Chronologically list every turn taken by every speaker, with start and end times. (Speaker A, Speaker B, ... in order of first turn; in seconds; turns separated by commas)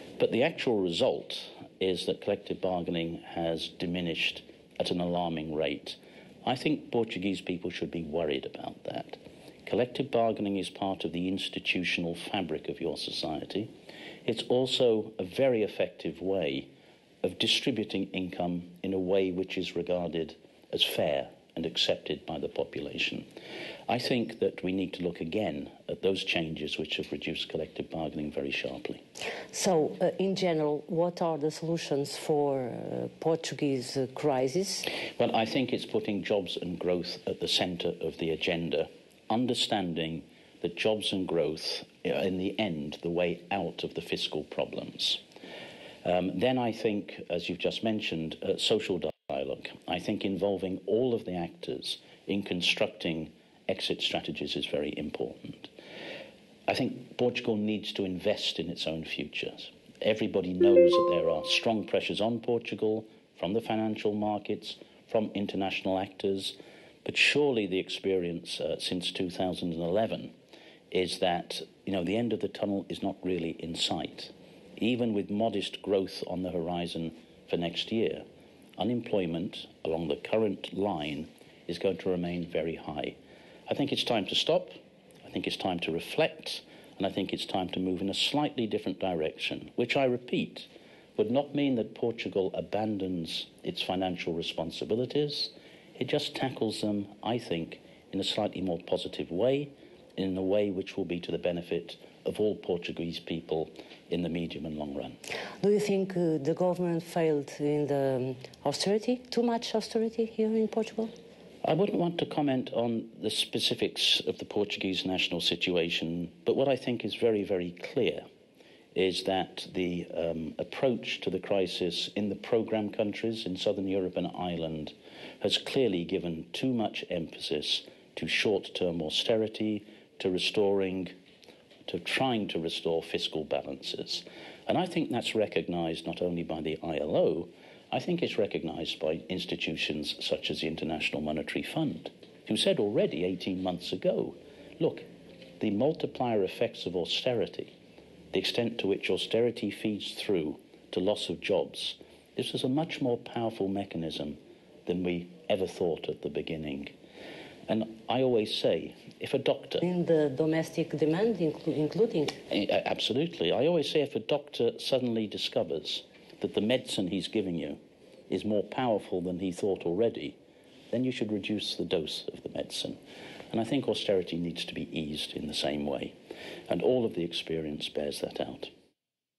Speaker A: 0.2-13.7, Speaker A: 14.2-16.7, Speaker A: 17.2-23.2, Speaker A: 23.9-29.0, Speaker B: 29.5-34.9, Speaker A: 35.2-45.2, Speaker A: 46.0-55.7, Speaker A: 56.7-70.3, Speaker A: 70.9-78.2, Speaker A: 78.8-83.2, Speaker A: 83.7-105.2, Speaker B: 105.6-111.1, Speaker A: 111.6-118.2, Speaker A: 118.9-131.1, Speaker A: 131.9-145.0, Speaker A: 145.6-147.7, Speaker A: 148.3-156.9, Speaker A: 157.7-159.8, Speaker B: 159.8-162.4, Speaker A: 162.5-170.4, Speaker A: 170.9-173.0, Speaker A: 173.5-176.1, Speaker A: 176.7-178.7